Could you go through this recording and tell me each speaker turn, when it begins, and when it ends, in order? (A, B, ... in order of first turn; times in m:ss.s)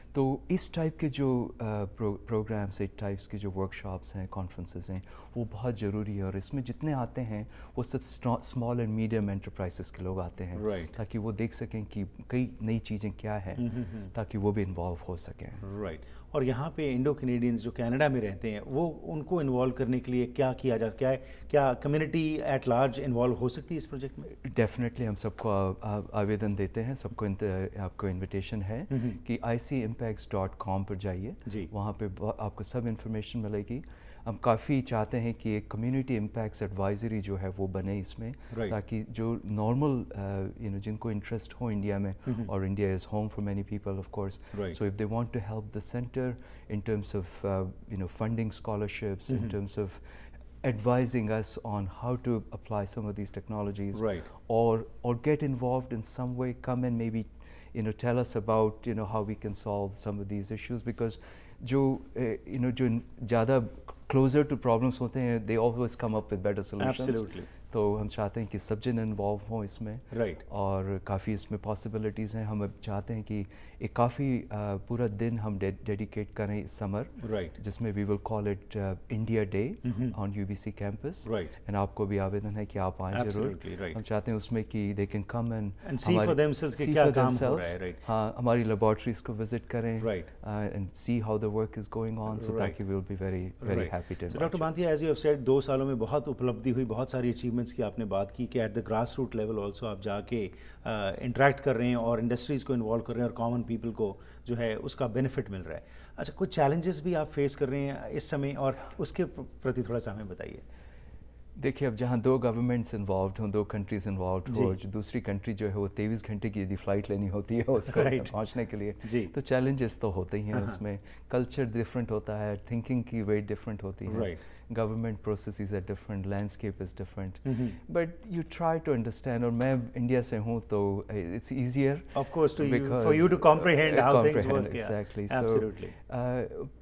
0:00.1-0:15.6 A
0:10.6-0:11.0 B
0:13.6-0:14.1 B
0:15.6-0:24.4 B
0:24.4-0:50.0 A
0:28.9-0:29.2 B
0:38.5-0:38.8 B
0:49.3-0:49.6 B
0:50.6-1:34.7 A
0:53.9-0:54.3 B
1:06.8-1:07.5 B
1:10.1-1:10.4 B
1:17.2-1:17.6 B
1:19.8-1:20.2 B
1:21.2-1:21.5 B
1:23.1-1:24.0 B
1:25.8-1:28.0 B
1:30.0-1:30.3 B
1:32.3-1:32.8 B
1:33.6-1:50.6 B
1:51.6-2:16.7 A
1:54.5-1:54.8 B
1:57.9-1:58.4 B
1:59.0-1:59.3 B
2:00.5-2:00.8 B
2:04.1-2:04.4 B
2:07.4-2:07.8 B
2:12.2-2:16.0 B